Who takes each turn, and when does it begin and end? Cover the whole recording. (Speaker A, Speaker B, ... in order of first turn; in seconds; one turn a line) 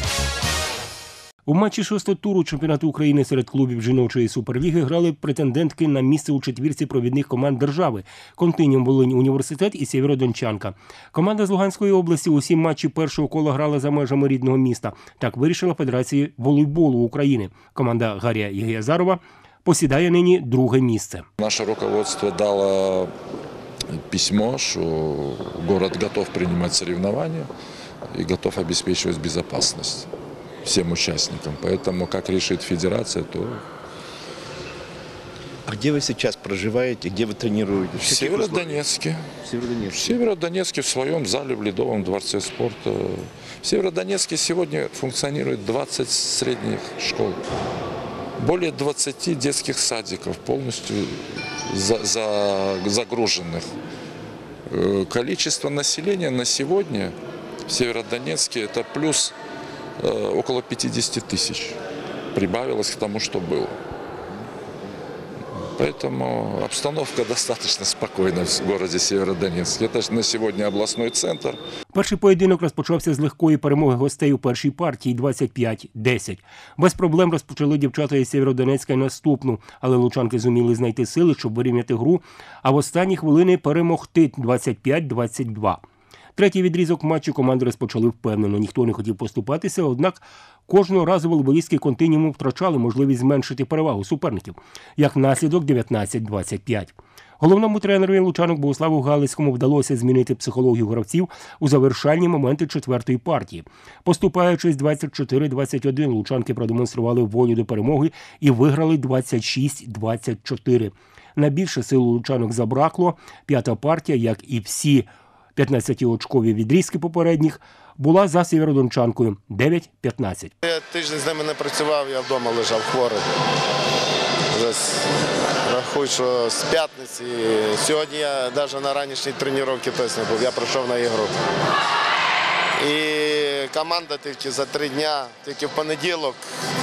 Speaker A: 1.5-21.3
Speaker B: 21.4-23.1
Speaker B: 23.9-27.5
Speaker B: 28.1-30.1
Speaker B: 30.6-33.6
Speaker C: 35.7-38.8
Speaker B: 38.0-39.3
Speaker C: 39.4-40.1
Speaker B: 39.9-47.4
Speaker B: 48.4-53.7
Speaker B: 54.7-57.1
Speaker B: 57.7-59.3
Speaker B: 60.0-61.8
Speaker B: 62.3-63.8
Speaker B: 65.8-71.6
Speaker A: 71.9-85.8
Speaker A: 86.3-120.5
Speaker D: 120.6-123.2
Speaker D: 124.5-125.0
Speaker D: 125.7-131.3
Speaker D: 132.8-136.4